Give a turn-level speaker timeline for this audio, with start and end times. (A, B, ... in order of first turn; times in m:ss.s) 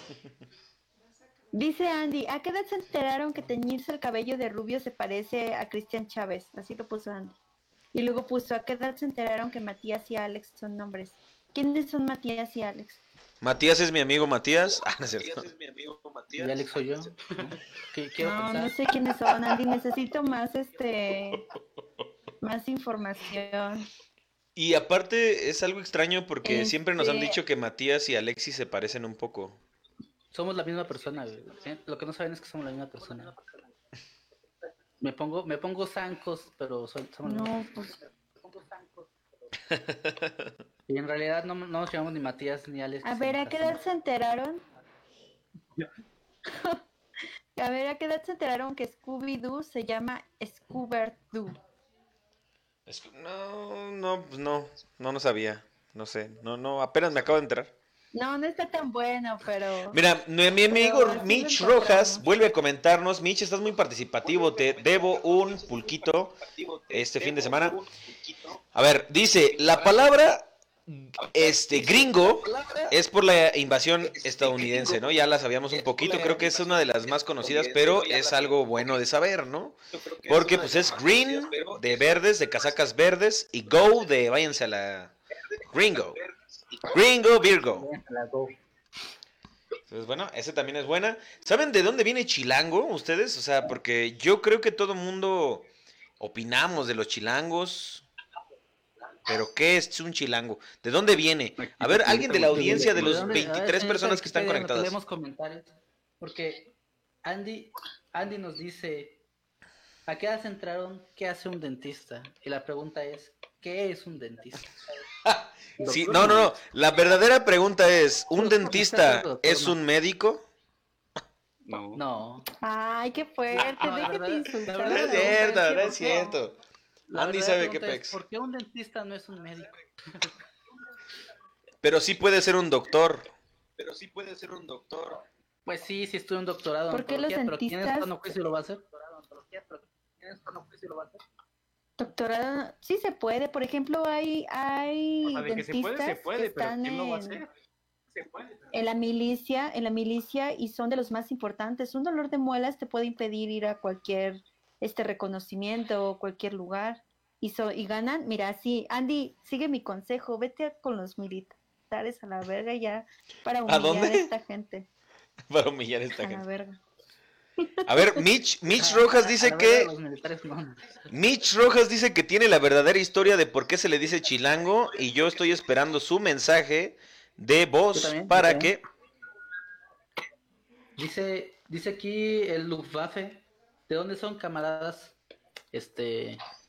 0:01.5-0:07.3 A
0:07.9-0:13.0 A
0:13.4-0:15.5 B
0:14.8-0:17.1 C
0:16.4-0:18.7 D
0:18.2-0:21.4 A
0:22.4-0:23.9 A
0:24.6-0:29.6 B
0:26.4-0:27.4 A
0:30.3-0:33.4 D
0:35.0-0:37.7 D
0:37.2-0:38.0 A
0:38.4-0:39.1 D
0:39.7-0:40.5 B
0:40.9-0:43.8 D
0:43.0-0:44.6 A
0:46.5-0:46.8 A
0:47.6-0:51.6 A
0:52.9-0:57.7 B
0:58.1-1:00.0 A
0:59.9-1:06.4 B
1:00.7-1:02.2 A
1:04.2-1:08.6 C
1:06.9-1:07.8 B
1:08.7-1:19.7 B
1:09.5-1:10.1 C
1:11.2-1:13.0 C
1:14.0-1:15.2 C
1:15.7-1:19.0 C
1:19.9-1:22.7 C
1:20.3-1:25.1 B
1:25.5-1:27.0 C
1:25.7-1:26.2 B
1:26.9-1:27.9 B
1:27.7-1:28.5 D
1:29.9-1:35.7 B
1:36.2-1:38.0 B
1:39.3-1:45.0 B
1:41.6-1:43.4 E
1:41.9-1:46.7 D
1:47.2-1:49.2 D
1:50.1-1:55.0 D
1:55.2-2:00.4 B
1:55.8-1:56.5 D
1:58.4-1:59.8 D
2:01.6-2:02.0 E
2:02.0-2:02.5 D
2:02.6-2:06.4 A
2:03.5-2:06.0 D
2:04.8-2:06.6 B
2:07.1-2:10.3 D
2:07.1-2:08.2 B
2:11.8-2:13.3 B
2:13.8-2:15.2 C
2:15.6-2:21.2 D
2:16.9-2:18.4 A
2:22.0-2:27.4 A
2:25.3-2:27.5 E
2:28.3-2:28.5 D
2:28.7-2:44.9 A
2:43.6-2:44.3 B
2:45.5-2:46.4 B
2:46.2-2:46.8 A
2:47.6-2:48.2 A
2:47.8-2:49.9 B
2:48.7-2:51.1 D
2:51.1-2:58.8 B
2:54.9-2:55.5 C
2:57.9-2:58.7 D
3:01.0-3:05.2 D
3:05.7-3:06.4 D